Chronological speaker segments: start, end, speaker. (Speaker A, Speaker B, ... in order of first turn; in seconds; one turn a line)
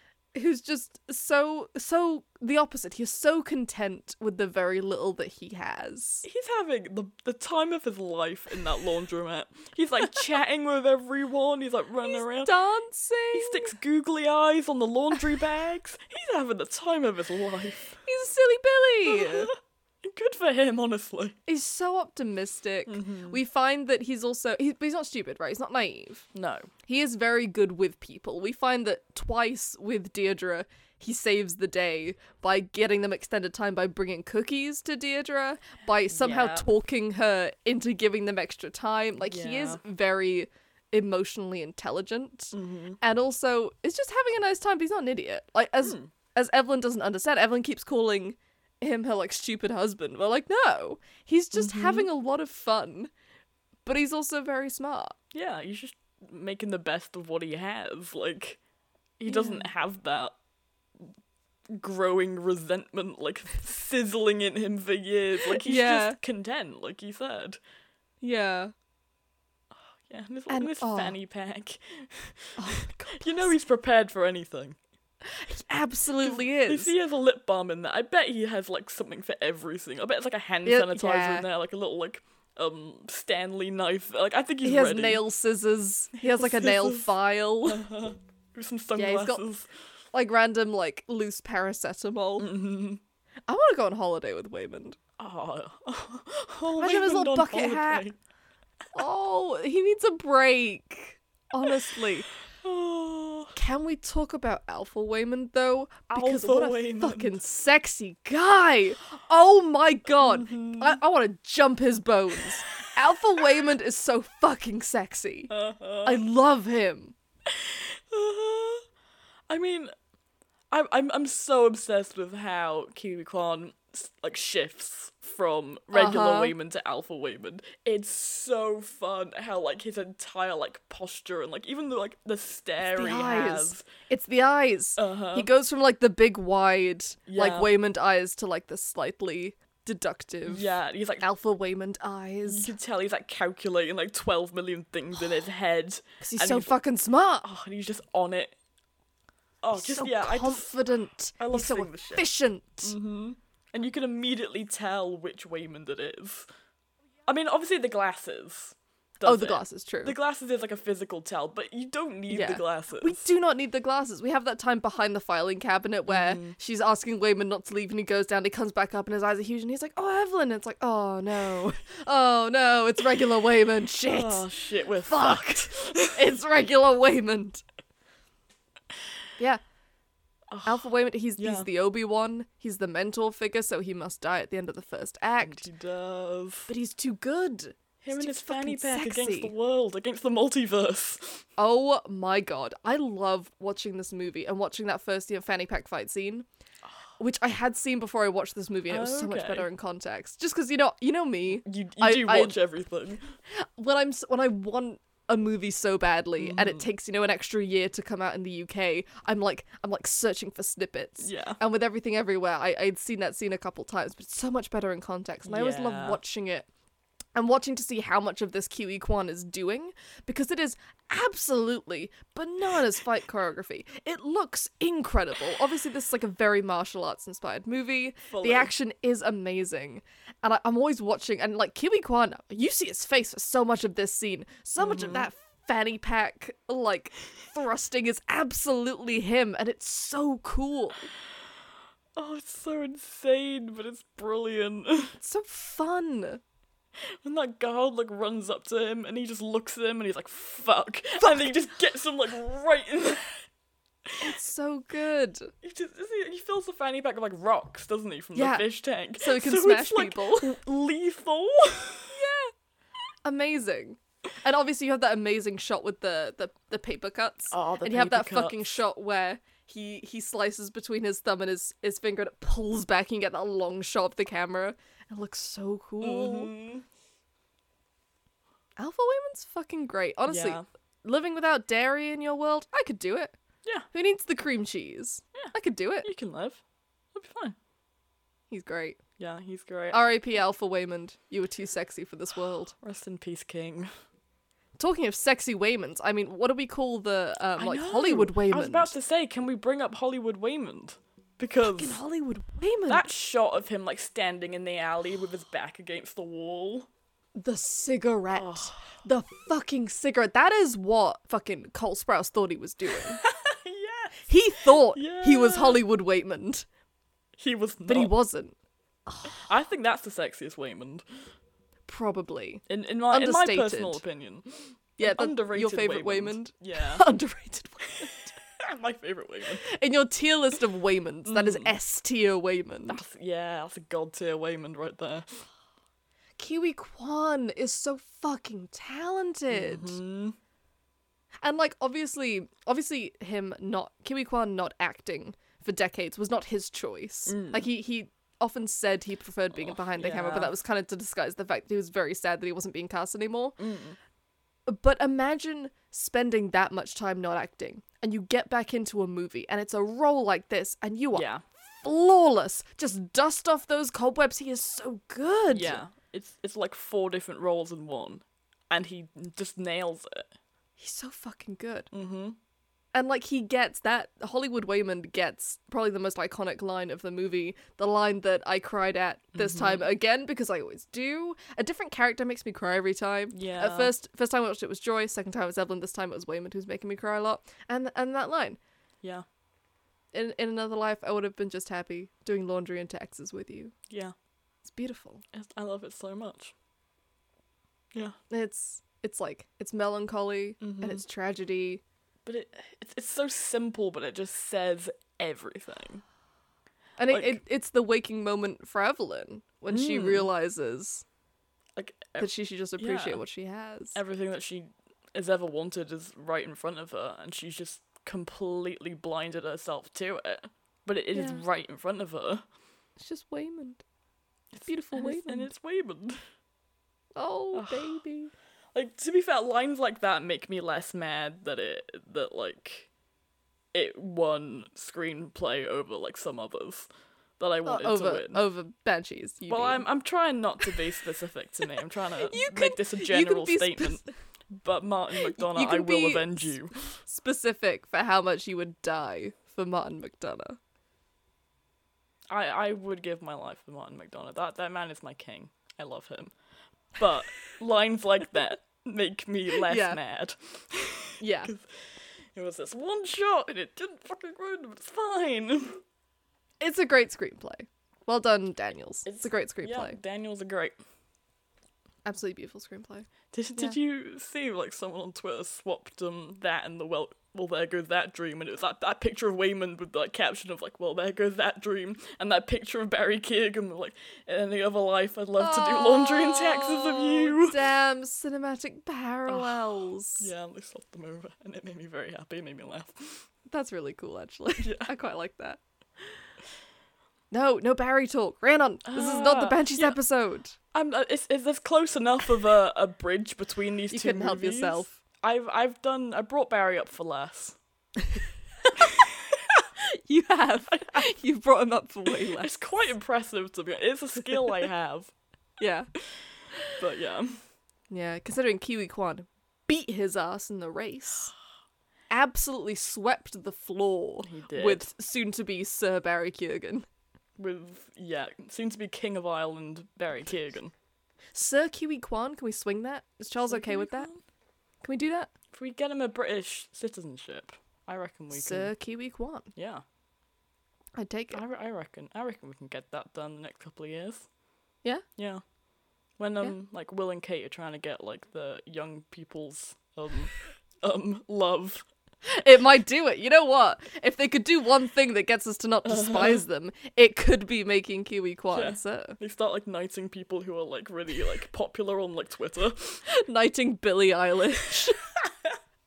Speaker A: 0.3-6.2
Speaker B: 6.2-12.5
Speaker A: 12.1-13.7
Speaker B: 13.3-18.0
Speaker A: 18.0-19.5
Speaker B: 19.1-19.5
Speaker B: 20.0-21.4
Speaker A: 21.5-26.3
Speaker B: 22.9-23.4
Speaker B: 26.3-26.7
Speaker A: 26.9-53.1
Speaker B: 36.1-36.7
Speaker B: 39.3-39.8
Speaker B: 42.5-43.0
Speaker B: 45.8-46.1
Speaker B: 51.5-52.1
Speaker A: 53.9-55.2
Speaker B: 55.3-58.6
Speaker B: 59.2-60.4
Speaker A: 59.3-59.7
Speaker B: 61.7-67.6
Speaker A: 65.4-66.2
Speaker A: 68.2-68.7
Speaker B: 70.0-74.8
Speaker A: 70.5-71.2
Speaker A: 72.6-73.5
Speaker A: 75.2-76.9
Speaker B: 76.2-85.2
Speaker A: 80.7-81.5
Speaker A: 84.6-87.8
Speaker B: 86.2-87.1
Speaker B: 87.7-89.7
Speaker A: 89.0-89.4
Speaker A: 90.1-92.5
Speaker B: 92.4-93.0
Speaker A: 93.5-95.0
Speaker B: 95.2-98.2
Speaker A: 96.8-98.0
Speaker A: 98.9-102.3
Speaker B: 102.5-103.6
Speaker A: 103.6-115.5
Speaker B: 106.1-107.4
Speaker B: 110.2-111.0
Speaker B: 115.5-116.2
Speaker A: 116.0-117.2
Speaker B: 117.5-118.8
Speaker B: 119.5-119.9
Speaker B: 120.7-133.8
Speaker A: 125.9-126.5
Speaker A: 132.8-140.7
Speaker B: 135.0-135.5
Speaker B: 137.3-137.7
Speaker B: 140.5-141.2
Speaker A: 141.2-142.7
Speaker B: 142.4-146.8
Speaker A: 146.2-147.5
Speaker B: 147.4-148.6
Speaker B: 149.6-150.7
Speaker A: 149.8-153.0
Speaker B: 151.4-152.3
Speaker B: 152.8-156.5
Speaker B: 157.3-163.3
Speaker A: 159.2-160.2
Speaker A: 162.3-174.5
Speaker B: 166.1-166.6
Speaker B: 174.0-176.2
Speaker A: 175.1-177.6
Speaker B: 180.5-181.7
Speaker A: 180.7-185.7
Speaker B: 185.4-186.7
Speaker A: 186.7-189.5
Speaker B: 188.0-191.5
Speaker A: 191.6-196.5
Speaker A: 197.2-202.6
Speaker B: 198.9-199.7
Speaker B: 201.6-203.3
Speaker A: 203.5-216.7
Speaker B: 206.4-206.9
Speaker B: 211.2-211.6
Speaker B: 215.5-216.2
Speaker A: 217.3-241.1
Speaker B: 228.3-228.7
Speaker B: 234.8-235.3
Speaker B: 242.2-245.2
Speaker A: 245.2-246.4
Speaker B: 247.2-253.4
Speaker A: 251.2-251.5
Speaker B: 254.1-254.3
Speaker A: 254.2-255.5
Speaker B: 255.6-262.2
Speaker A: 258.4-260.6
Speaker A: 262.1-262.5
Speaker A: 263.2-276.5
Speaker B: 267.5-268.8
Speaker B: 276.0-276.9
Speaker A: 278.8-283.3
Speaker B: 280.3-280.6
Speaker A: 283.9-286.1
Speaker B: 285.4-286.6
Speaker B: 287.1-287.6
Speaker A: 288.5-289.0
Speaker B: 289.2-290.0
Speaker A: 289.9-292.7
Speaker B: 292.8-293.9
Speaker A: 294.8-298.9
Speaker B: 297.6-302.0
Speaker A: 301.6-303.1
Speaker B: 302.9-306.9
Speaker A: 307.4-313.2
Speaker B: 308.3-308.9
Speaker B: 312.9-315.8
Speaker A: 314.3-316.7
Speaker B: 317.4-318.1
Speaker A: 317.9-318.6
Speaker A: 319.1-319.4
Speaker B: 319.2-321.1
Speaker A: 321.9-324.0
Speaker B: 322.7-327.0
Speaker A: 325.0-328.3
Speaker B: 328.0-329.7
Speaker A: 329.6-333.0
Speaker B: 331.3-331.8
Speaker B: 332.9-335.5
Speaker A: 336.4-340.0
Speaker B: 339.5-340.4
Speaker A: 341.4-353.6
Speaker B: 347.3-347.7
Speaker B: 349.5-350.5
Speaker B: 353.6-354.0
Speaker A: 354.7-365.8
Speaker B: 361.1-361.4
Speaker B: 365.5-370.3
Speaker A: 370.8-371.9
Speaker B: 371.9-372.4
Speaker A: 372.9-388.6
Speaker B: 379.4-379.9
Speaker B: 383.3-383.9
Speaker A: 390.1-393.7
Speaker A: 394.6-395.2
Speaker B: 395.3-396.5
Speaker A: 398.3-401.8
Speaker B: 400.6-401.0
Speaker B: 402.3-406.0
Speaker A: 407.0-411.1
Speaker B: 407.1-407.4
Speaker B: 409.7-410.3
Speaker B: 411.8-413.2
Speaker A: 412.2-414.0
Speaker B: 413.9-422.4
Speaker A: 421.1-421.4
Speaker A: 423.0-423.8
Speaker B: 424.5-426.2
Speaker A: 424.7-425.5
Speaker A: 427.2-428.3
Speaker B: 427.5-428.0
Speaker B: 428.8-432.9
Speaker B: 433.7-436.9
Speaker B: 437.4-438.4
Speaker A: 437.6-439.8
Speaker B: 439.5-447.0
Speaker A: 442.2-444.1
Speaker A: 445.2-450.6
Speaker B: 452.3-456.3
Speaker B: 456.9-465.8
Speaker A: 459.6-460.0
Speaker A: 461.2-461.5
Speaker A: 466.6-470.0
Speaker B: 469.1-470.8
Speaker A: 472.1-473.8
Speaker B: 473.3-487.6
Speaker A: 485.4-490.3
Speaker B: 489.3-493.3
Speaker A: 493.5-495.6
Speaker B: 494.6-494.9
Speaker A: 497.3-500.6
Speaker B: 498.9-500.0
Speaker B: 500.7-507.6
Speaker A: 503.9-504.9
Speaker A: 509.8-512.5
Speaker B: 510.7-511.1
Speaker B: 512.3-515.1
Speaker A: 515.6-515.9
Speaker B: 516.0-517.4
Speaker A: 517.9-521.3
Speaker A: 522.1-526.9
Speaker B: 524.2-524.9
Speaker B: 527.4-530.7
Speaker A: 531.3-534.1
Speaker B: 533.5-534.2
Speaker A: 534.8-535.3
Speaker B: 535.5-538.7
Speaker A: 538.3-539.5
Speaker B: 539.5-539.8
Speaker A: 541.0-541.4
Speaker B: 541.3-544.3
Speaker B: 545.2-545.4
Speaker B: 546.2-551.8
Speaker A: 552.2-559.2
Speaker B: 555.9-556.4
Speaker B: 558.5-563.0
Speaker A: 563.1-565.0
Speaker B: 565.2-565.5